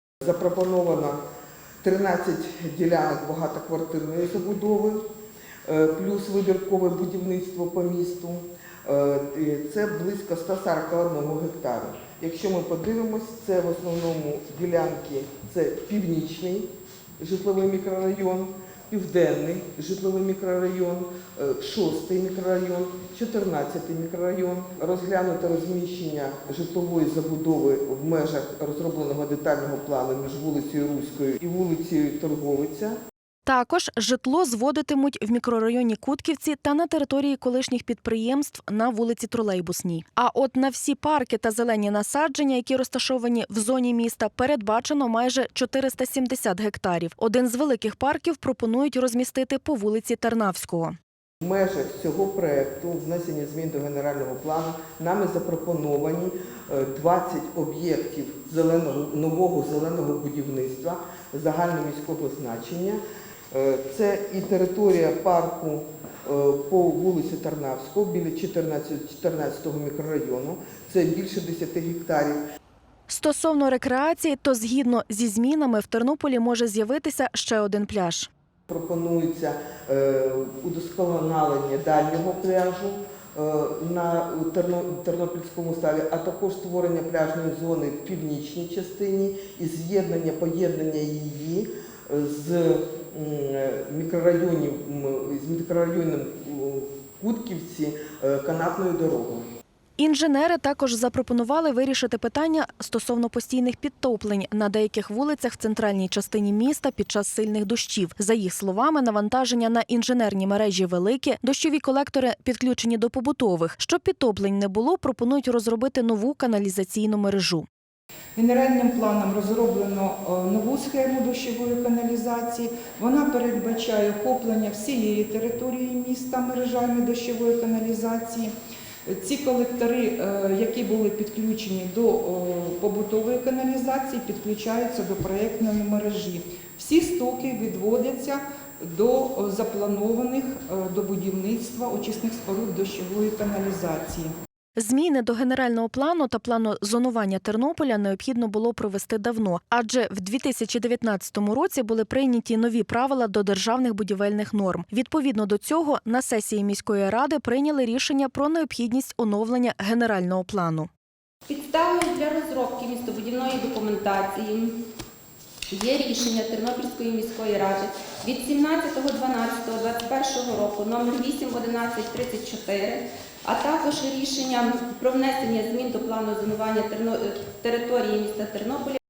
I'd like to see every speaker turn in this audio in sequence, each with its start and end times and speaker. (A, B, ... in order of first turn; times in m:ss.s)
0:00.2-0:01.2 A
0:01.8-0:05.0 A
0:05.7-0:16.7 A
0:17.2-0:33.0 A
0:33.4-0:51.0 B
0:51.4-1:03.0 A
1:03.5-1:12.4 A
1:13.1-1:18.3 B
1:18.7-1:39.5 A
1:40.0-1:57.6 B
1:58.4-2:08.5 C
2:09.0-2:24.3 C
2:24.8-2:40.9 B
2:41.5-2:44.8 D
2:45.7-2:59.0 D